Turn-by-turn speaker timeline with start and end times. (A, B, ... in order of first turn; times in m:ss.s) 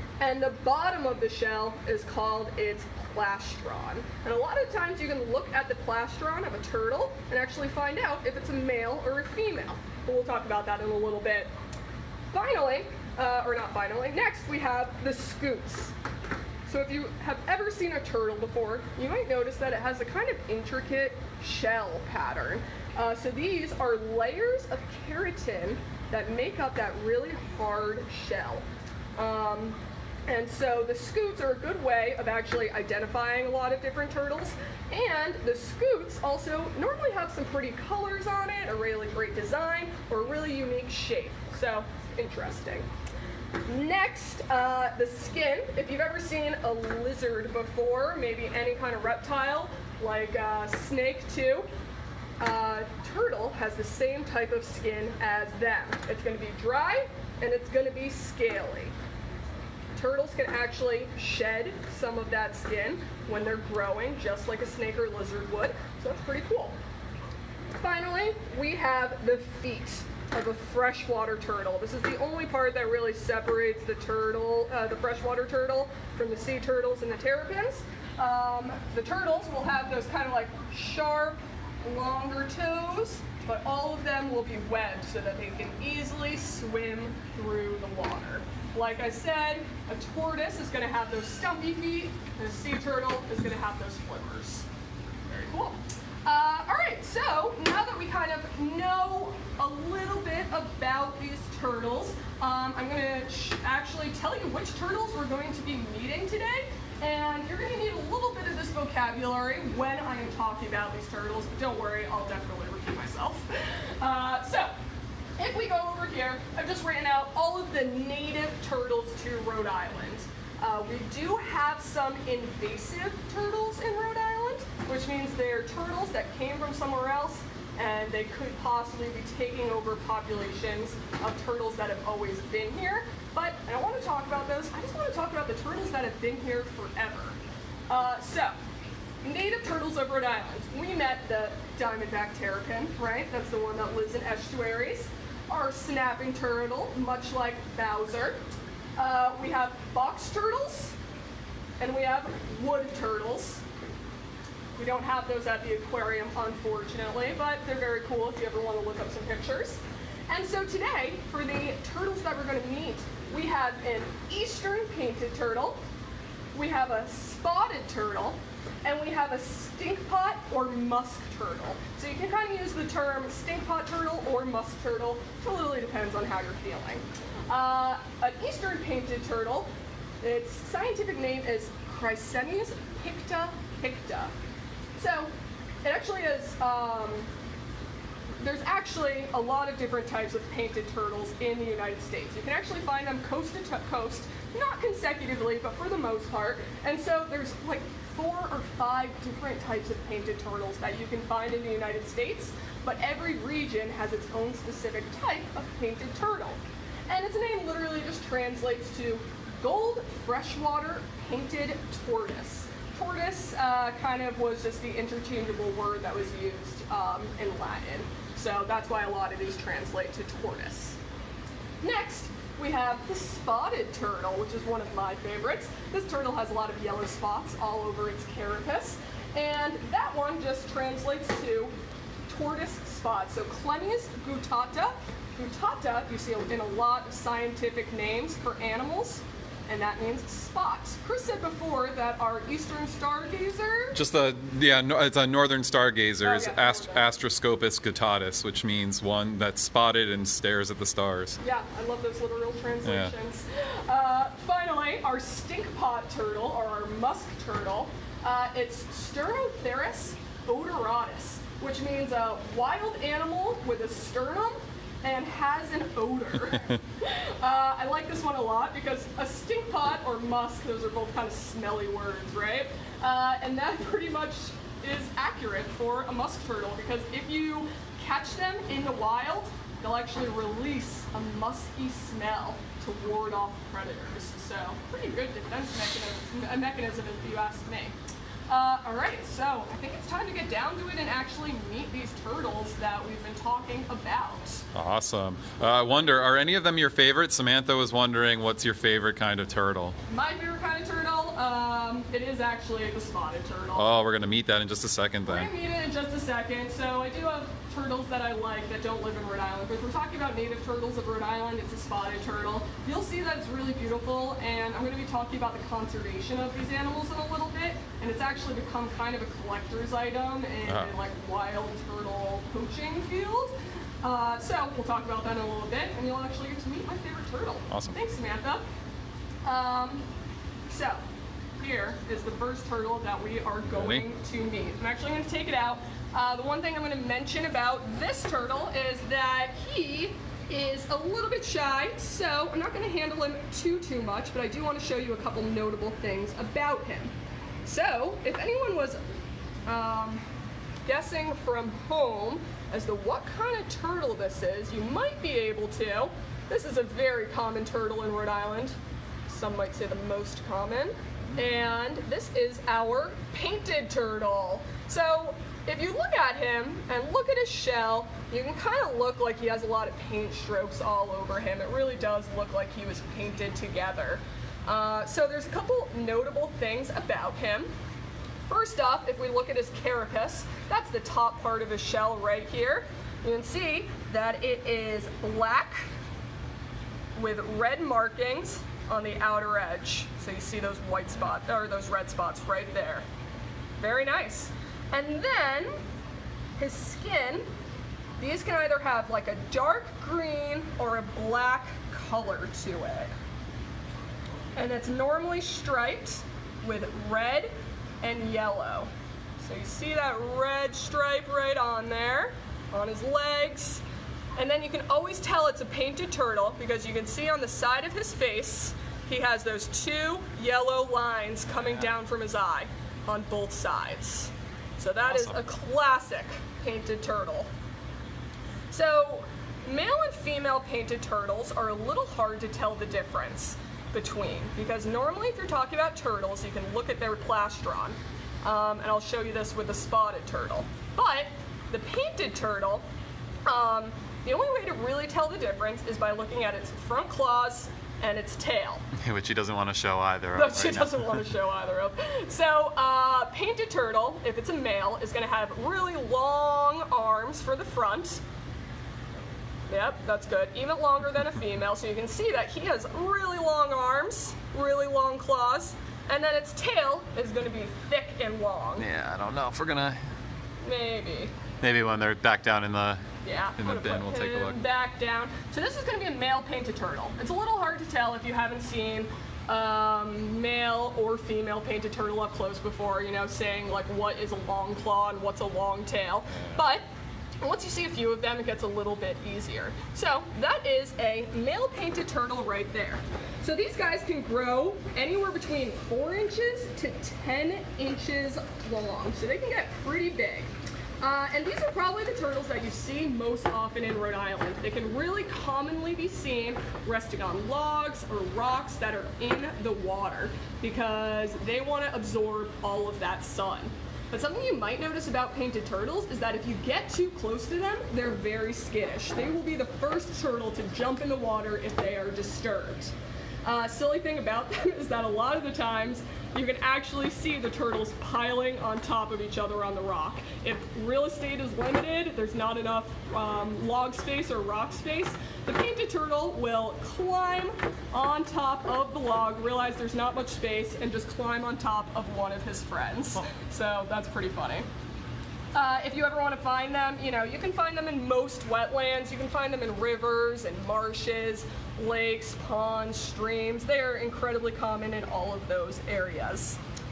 0:00.2-0:11.5 A
0:12.3-0:15.9 A
0:16.7-0:28.6 A
0:29.2-0:29.8 A
0:30.3-0:42.9 A
0:43.7-0:51.7 A
0:52.4-0:58.9 A
1:00.0-1:06.8 A
1:07.8-1:34.7 A
1:35.3-1:54.7 A
1:55.4-2:17.4 A
2:17.9-2:18.6 A
2:19.2-2:28.4 A
2:29.0-2:31.0 A
2:31.8-2:33.6 A
2:34.8-2:39.8 A
2:40.3-2:45.8 A
2:46.5-2:59.7 A
3:00.2-3:04.3 A
3:05.0-3:05.3 A
3:05.8-3:07.3 A
3:08.4-3:26.6 A
3:27.1-3:41.0 A
3:41.8-3:51.7 A
3:52.3-4:04.0 A
4:04.0-4:11.4 B
4:06.2-4:07.0 A
4:11.4-4:47.9 A
4:12.8-4:13.1 B
4:48.5-4:54.7 A
4:54.7-5:00.0 B
5:00.1-5:03.9 A
5:03.8-5:05.5 B
5:05.3-5:28.6 A
5:20.7-5:20.9 B
5:29.4-5:30.0 A
5:30.7-5:31.0 A
5:31.6-5:47.1 A
5:47.6-5:49.0 A
5:49.7-5:50.2 A
5:50.9-5:58.7 A
5:59.3-6:17.7 A
6:18.5-6:25.9 A
6:27.2-6:33.0 A
6:33.8-6:35.7 A
6:36.6-6:37.4 A
6:38.2-6:43.1 A
6:44.6-6:47.5 A
6:48.0-6:53.8 A
6:54.4-7:07.5 A
7:05.1-7:05.4 B
7:08.7-7:22.8 A
7:23.5-7:28.8 A
7:29.0-7:31.2 B
7:30.4-7:38.2 A
7:39.7-7:48.9 A
7:48.8-7:50.0 B
7:50.6-7:51.3 A
7:51.6-7:53.0 B
7:53.2-8:06.8 A
7:53.6-7:54.6 B
8:07.4-8:20.5 A
8:21.0-8:42.9 A
8:43.4-9:04.7 A
9:05.6-9:16.6 A